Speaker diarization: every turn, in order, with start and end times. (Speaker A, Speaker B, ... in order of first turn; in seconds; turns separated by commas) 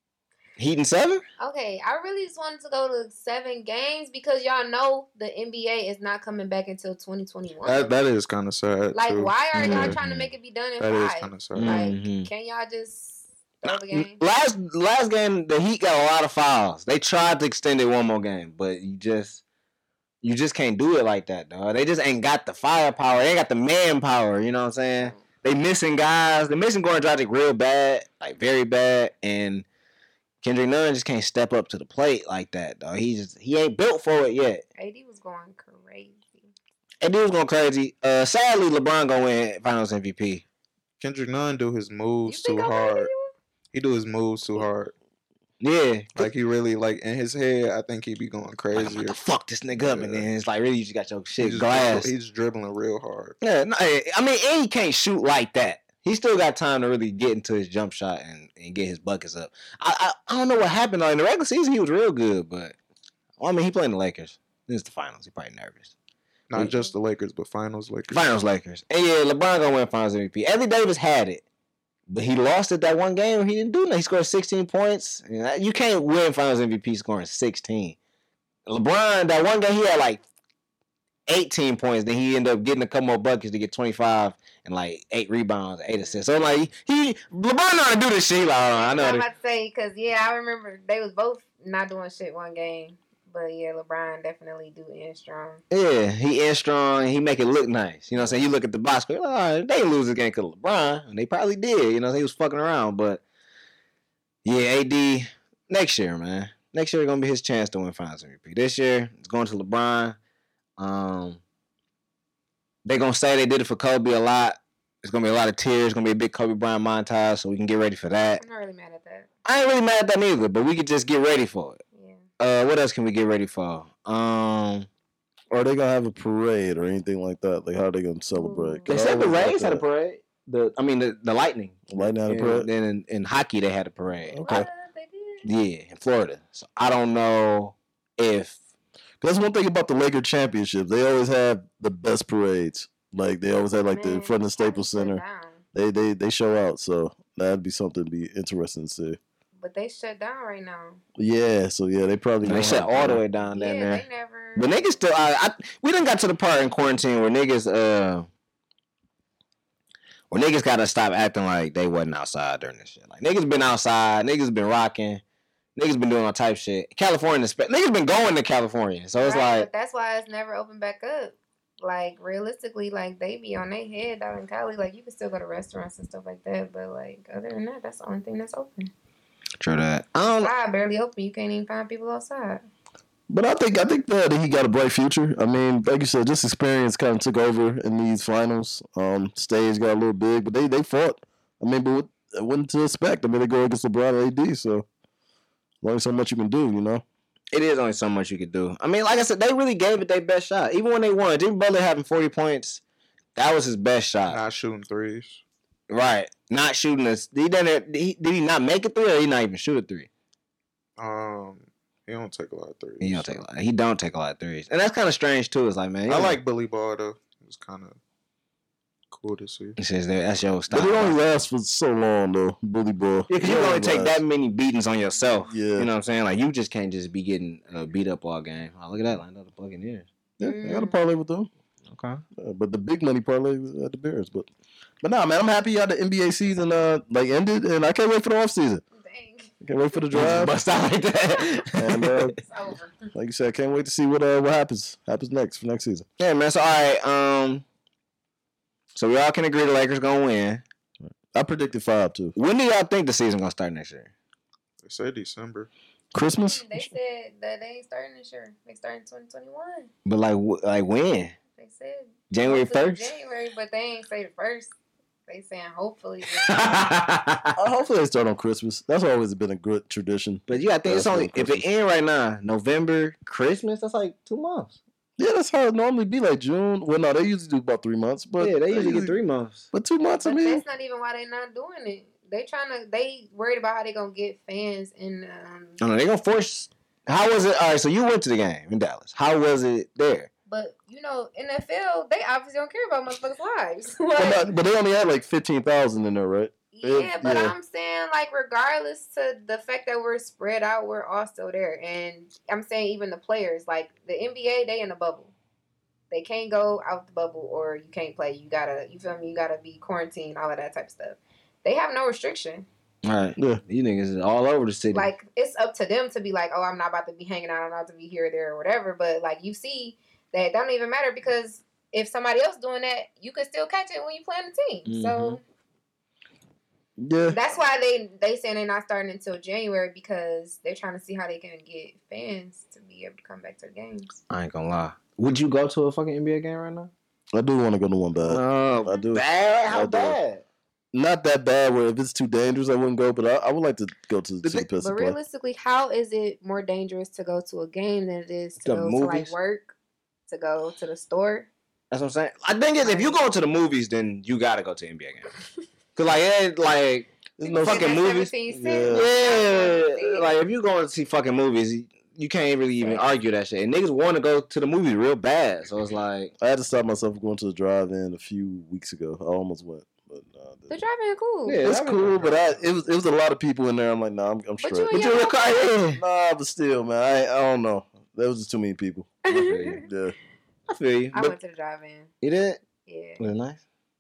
Speaker A: 0.6-1.2, Speaker B: 1.4-7.9, Speaker C: 7.6-10.0, Speaker B: 8.9-14.2, Speaker A: 9.6-10.2, Speaker C: 10.8-11.9, Speaker A: 11.5-12.3, Speaker A: 13.7-19.4, Speaker A: 20.2-29.6, Speaker A: 30.4-34.6, Speaker B: 34.8-36.5, Speaker A: 37.0-40.4, Speaker C: 41.0-43.1, Speaker B: 42.3-43.3, Speaker C: 43.7-44.9, Speaker A: 45.6-46.3, Speaker C: 46.2-49.2, Speaker A: 48.7-52.1, Speaker C: 49.7-50.3, Speaker C: 51.4-53.4, Speaker A: 53.4-62.8, Speaker A: 63.4-65.9, Speaker C: 66.5-68.3, Speaker A: 68.1-71.5, Speaker A: 72.1-78.0, Speaker A: 78.7-80.2, Speaker A: 81.3-89.3, Speaker B: 86.0-86.2, Speaker B: 88.7-95.6, Speaker A: 95.7-103.2, Speaker B: 98.2-98.4, Speaker A: 104.5-110.2, Speaker A: 110.8-111.4, Speaker A: 112.8-118.4, Speaker B: 118.4-119.3, Speaker A: 119.5-121.8, Speaker B: 121.9-122.2, Speaker A: 122.4-124.9, Speaker D: 125.5-129.8, Speaker B: 128.3-129.0, Speaker A: 128.9-134.4, Speaker D: 131.9-132.7, Speaker D: 134.3-134.7, Speaker B: 134.4-135.5, Speaker A: 135.4-138.6, Speaker D: 139.2-145.2, Speaker B: 143.9-145.6, Speaker D: 145.7-149.2, Speaker B: 149.6-151.0, Speaker D: 151.2-153.2, Speaker A: 152.4-154.1, Speaker B: 153.5-155.0, Speaker A: 154.6-158.3, Speaker A: 160.3-165.2, Speaker A: 165.8-169.7, Speaker B: 169.2-178.9, Speaker A: 179.6-180.5, Speaker B: 180.4-182.6, Speaker D: 183.3-194.9, Speaker D: 195.8-197.0, Speaker A: 197.5-202.8, Speaker A: 203.4-204.4, Speaker C: 204.3-205.4, Speaker A: 205.9-210.1, Speaker C: 211.0-213.4, Speaker A: 213.0-216.4, Speaker C: 216.1-218.0, Speaker C: 219.1-219.8, Speaker A: 219.8-221.2, Speaker D: 220.7-224.2, Speaker A: 223.3-230.1, Speaker D: 225.5-225.9, Speaker D: 230.4-231.5, Speaker B: 230.4-231.0, Speaker A: 231.9-232.2, Speaker D: 232.4-234.5, Speaker D: 235.0-238.8, Speaker B: 238.9-239.5, Speaker D: 239.6-240.6, Speaker A: 240.1-242.3, Speaker D: 241.8-242.4, Speaker B: 242.4-243.1, Speaker D: 243.1-246.1, Speaker A: 246.2-247.6, Speaker A: 248.9-250.6, Speaker D: 251.3-252.3, Speaker A: 252.4-254.1, Speaker C: 254.8-255.7, Speaker D: 256.1-256.9, Speaker B: 256.3-259.9, Speaker A: 260.1-261.4, Speaker B: 261.6-264.7, Speaker A: 262.3-263.1, Speaker B: 265.3-266.6, Speaker A: 266.4-267.6, Speaker D: 267.6-271.7, Speaker A: 270.5-274.8, Speaker D: 275.2-279.2, Speaker A: 278.4-279.6, Speaker D: 279.7-280.6, Speaker B: 280.2-285.8, Speaker A: 285.8-290.3, Speaker B: 290.5-294.6, Speaker D: 294.2-297.6, Speaker B: 296.7-305.3, Speaker B: 306.1-312.7, Speaker A: 313.0-315.1, Speaker B: 314.9-325.4, Speaker A: 324.9-325.4, Speaker D: 327.0-327.4, Speaker B: 327.3-334.2, Speaker A: 334.3-336.9, Speaker D: 337.3-340.2, Speaker A: 338.3-340.4, Speaker D: 340.9-345.2, Speaker B: 344.5-349.7, Speaker A: 348.6-349.3, Speaker B: 350.3-351.5, Speaker A: 351.9-355.3, Speaker B: 352.8-353.2, Speaker A: 356.0-358.3, Speaker D: 357.4-359.1, Speaker B: 357.4-360.3, Speaker A: 358.9-366.3, Speaker B: 362.8-363.1, Speaker D: 366.4-370.8, Speaker B: 370.7-371.6, Speaker A: 371.5-372.4, Speaker D: 371.6-375.1, Speaker C: 372.2-372.6, Speaker B: 374.6-375.7, Speaker A: 374.9-376.0, Speaker D: 375.9-380.1, Speaker B: 379.2-379.9, Speaker A: 379.3-379.8, Speaker A: 380.7-381.4, Speaker B: 381.1-382.1, Speaker A: 382.2-382.6, Speaker B: 382.9-383.2, Speaker A: 383.2-383.6